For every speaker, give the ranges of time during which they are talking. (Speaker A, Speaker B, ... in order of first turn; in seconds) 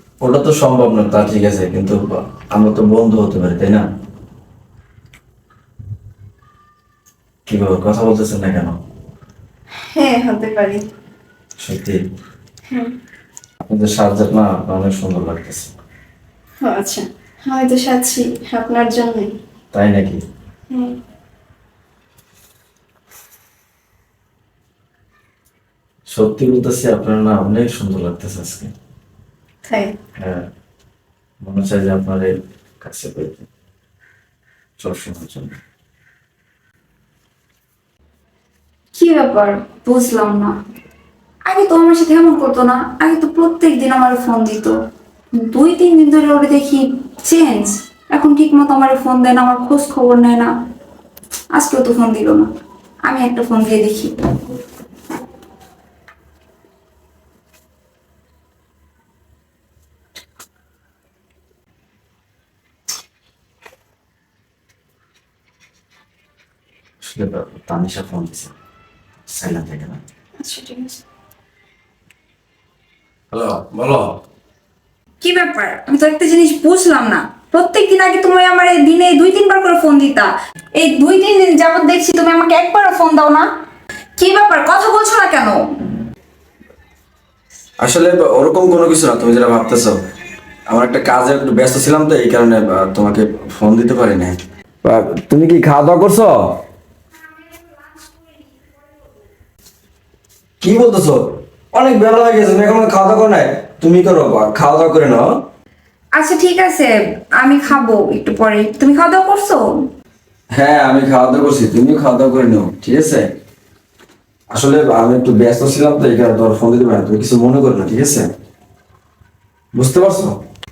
Speaker A: 0.2-3.9, 7.5-8.8, 11.6-12.0, 13.6-15.7, 19.7-20.2, 26.1-28.7, 30.2-30.5, 31.4-32.3, 32.8-33.5, 34.8-35.6, 67.0-68.5, 69.3-70.0, 73.3-74.2, 87.8-90.0, 90.7-96.4, 100.6-105.3, 110.5-113.3, 114.5-118.3, 119.7-120.4
Speaker B: 9.9-10.8, 16.6-19.3, 29.7-29.9, 70.4-71.0
Speaker C: 39.0-40.5, 41.5-44.7, 45.4-50.5, 51.5-52.5, 53.1-54.2, 75.2-83.5, 84.2-85.6, 97.5-98.7, 106.2-109.6